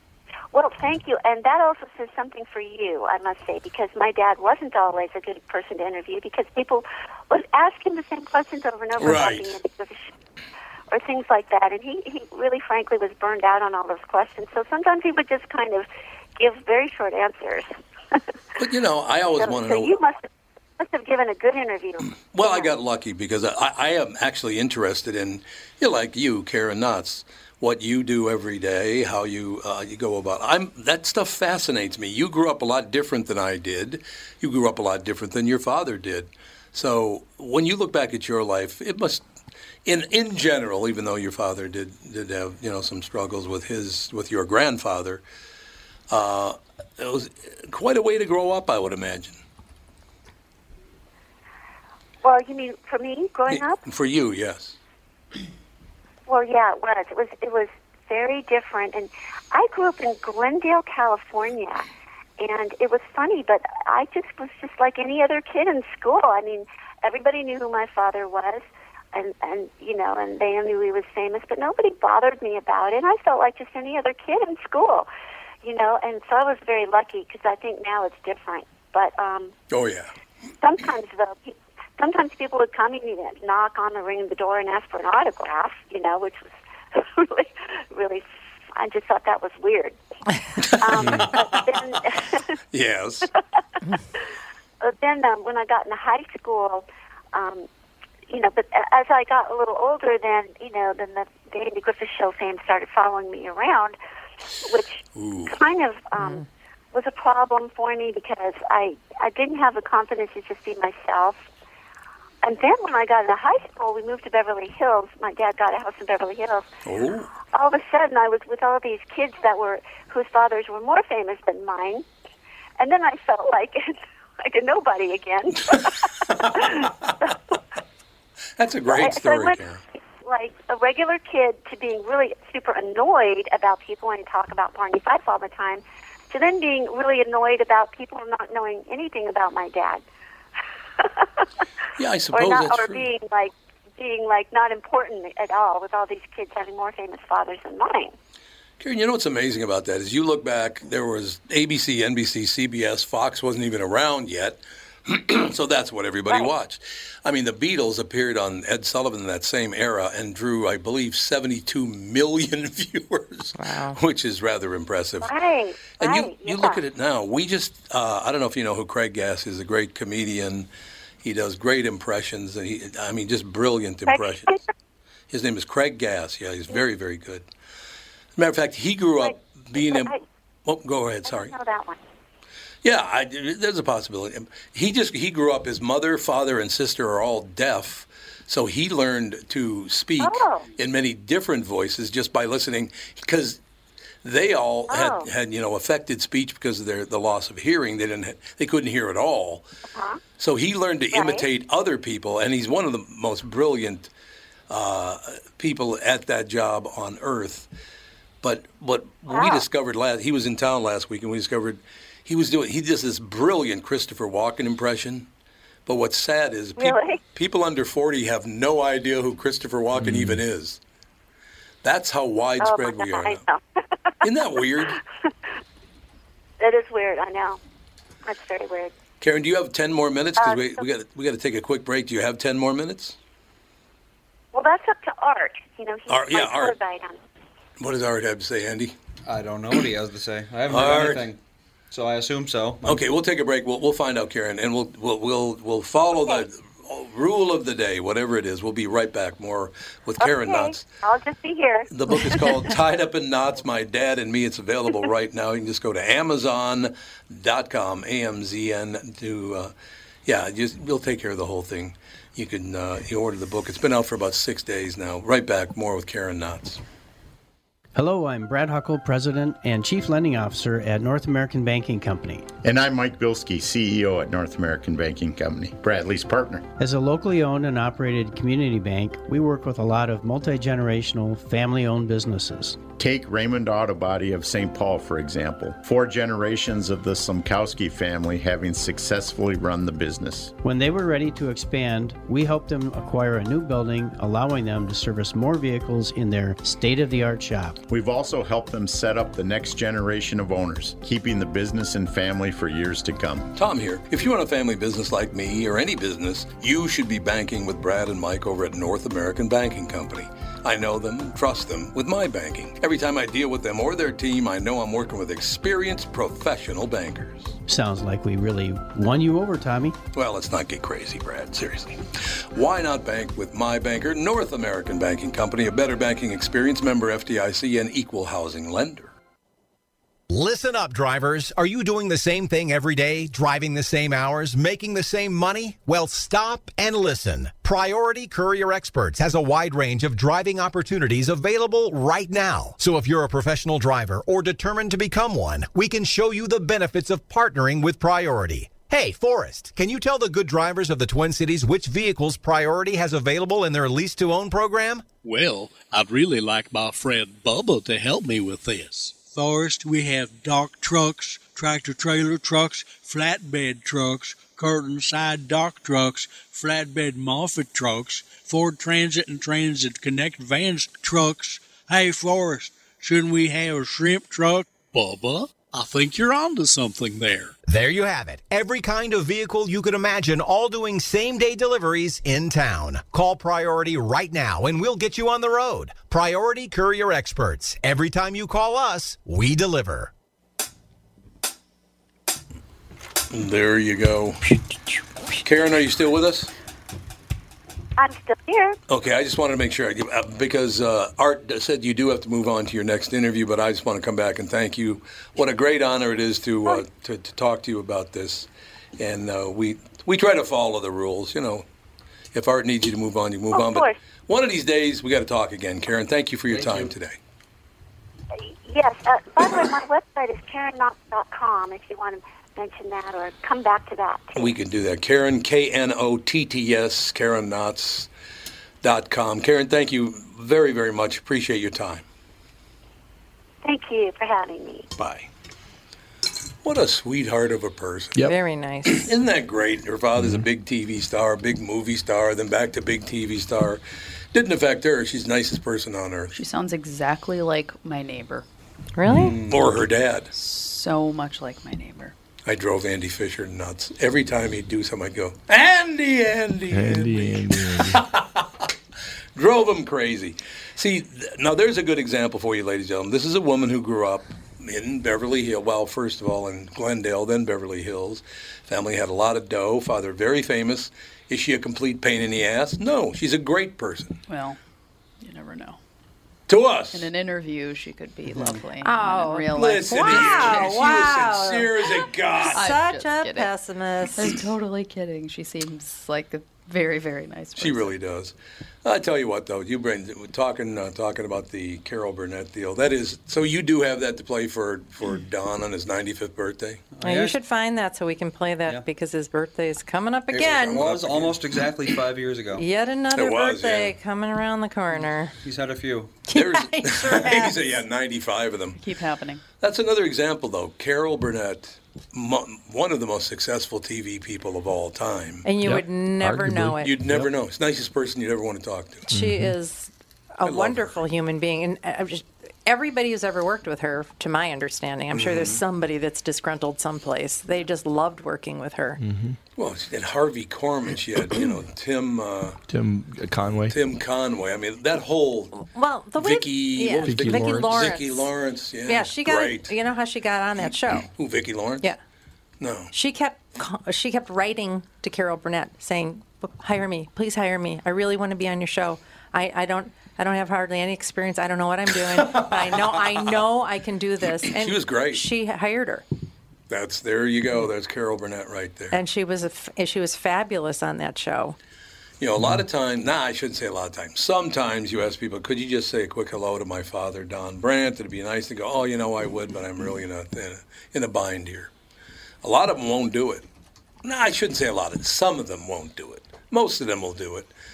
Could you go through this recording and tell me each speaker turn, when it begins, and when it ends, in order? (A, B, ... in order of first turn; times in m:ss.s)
0:00.5-0:10.1 A
0:09.0-0:09.6 B
0:10.9-0:15.8 A
0:16.4-0:18.2 A
0:18.6-0:19.9 B
0:19.4-0:20.2 A
0:20.8-0:22.7 A
0:22.3-0:39.2 B
0:39.8-0:45.2 B
0:46.1-0:49.4 B
0:52.2-0:53.8 A
0:53.5-0:54.8 B
0:56.3-1:01.8 A
1:02.4-1:15.1 A
1:15.6-1:19.5 A
1:19.7-1:20.1 B
1:20.6-1:30.0 A
1:30.6-1:31.6 B
1:30.8-1:32.5 A
1:32.7-1:33.3 B
1:34.8-1:37.7 A
1:38.3-1:43.9 A
1:44.6-1:51.4 A
1:45.2-1:45.5 B
1:52.4-1:56.7 A
1:56.8-1:57.3 B
1:57.5-2:02.0 A
2:02.8-2:07.4 A
2:08.6-2:09.8 B
2:08.9-2:09.6 A
2:10.2-2:20.0 A
2:21.0-2:21.4 A
2:22.0-2:23.1 B
2:22.3-2:28.1 A
2:28.8-2:45.3 B
2:43.6-2:44.0 C
2:45.2-2:46.8 A
2:46.0-2:50.7 B
2:51.2-2:54.5 B
2:54.1-2:54.6 A
2:55.3-2:57.4 B
2:58.4-3:00.1 B
2:59.2-3:00.2 A
3:00.6-3:01.5 B
3:01.2-3:02.0 A
3:02.8-3:13.6 B
3:10.2-3:10.6 A
3:14.2-3:19.6 B
3:14.9-3:15.3 A
3:19.9-3:20.2 A
3:20.4-3:24.1 B
3:21.1-3:21.4 A
3:24.7-3:27.7 B
3:28.4-3:35.3 B
3:29.3-3:29.6 A
3:35.8-3:40.8 B
3:36.8-3:37.2 A
3:39.9-3:40.4 D
3:41.8-3:43.4 B
3:42.6-3:43.6 A
3:44.2-3:45.0 B
3:46.6-3:47.6 A
3:48.2-3:48.9 A
3:49.2-3:53.2 B
3:50.4-3:50.8 A
3:54.5-3:57.2 A
3:56.1-3:56.8 B
3:57.8-3:58.9 B
3:59.2-4:01.4 E
4:00.7-4:01.3 B
4:01.9-4:03.0 E
4:02.8-4:10.8 B
4:10.2-4:12.5 A
4:11.9-4:19.7 B
4:20.2-4:26.8 B
4:27.9-4:32.4 F
4:32.6-4:36.6 G
4:36.8-4:42.8 F
4:43.0-4:50.5 G
4:50.6-4:57.8 F
4:57.9-5:03.5 G
5:03.5-5:17.6 B
5:17.7-5:20.0 F
5:20.1-5:22.0 B
5:22.5-5:29.1 B
5:30.3-5:55.0 H
5:55.2-6:17.5 I
6:17.7-6:30.1 H
6:33.3-6:34.4 B
6:35.4-6:36.5 B
6:38.0-6:38.8 A
6:38.9-6:48.5 B
6:49.0-6:51.6 B
6:52.3-6:57.1 B
6:53.5-6:54.0 A
6:56.5-6:56.9 D
6:58.3-7:04.5 A
7:04.4-7:08.1 B
7:08.8-7:12.0 B
7:13.6-7:14.9 A
7:15.0-7:15.3 B
7:16.6-7:18.2 B
7:18.2-7:19.1 C
7:18.9-7:23.8 B
7:20.2-7:20.4 D
7:24.3-7:26.3 B
7:26.3-7:28.4 J
7:29.0-7:29.4 C
7:29.1-7:29.3 D
7:29.1-7:29.8 E
7:29.5-7:30.3 B
7:30.3-7:32.1 J
7:32.4-7:38.7 B
7:36.7-7:38.0 D
7:39.3-7:54.2 B
7:54.3-7:54.6 J
7:55.2-7:55.8 J
7:56.5-7:57.1 B
7:56.9-8:00.6 J
7:58.8-8:04.4 C
7:59.5-8:02.7 B
8:02.5-8:03.5 J
8:04.1-8:07.9 J
8:07.6-8:08.3 B
8:08.8-8:16.8 B
8:16.9-8:17.4 E
8:17.0-8:20.9 C
8:20.3-8:21.4 B
8:20.7-8:22.6 E
8:22.6-8:25.3 C
8:23.1-8:23.9 B
8:25.4-8:26.2 E
8:26.3-8:27.6 C
8:26.3-8:28.8 B
8:28.8-8:29.4 J
8:29.6-8:35.4 B
8:35.4-8:36.9 C
8:35.6-8:37.3 D
8:36.8-8:39.1 B
8:39.1-8:49.0 C
8:39.1-8:39.5 D
8:40.4-8:41.0 B
8:45.2-8:45.5 B
8:49.0-8:49.4 D
8:49.6-8:52.6 B
8:52.7-8:53.8 D
8:53.7-8:55.6 B
8:55.6-8:58.3 C
8:56.1-8:59.7 B
8:57.0-8:58.0 D
8:58.8-9:01.1 C
9:01.0-9:01.8 B
9:02.6-9:02.9 B
9:02.9-9:16.0 C
9:12.3-9:13.0 B
9:14.5-9:15.2 B
9:16.7-9:19.0 B
9:18.9-9:21.6 C
9:22.2-9:31.7 B
9:32.4-9:33.4 B
9:34.0-9:37.5 B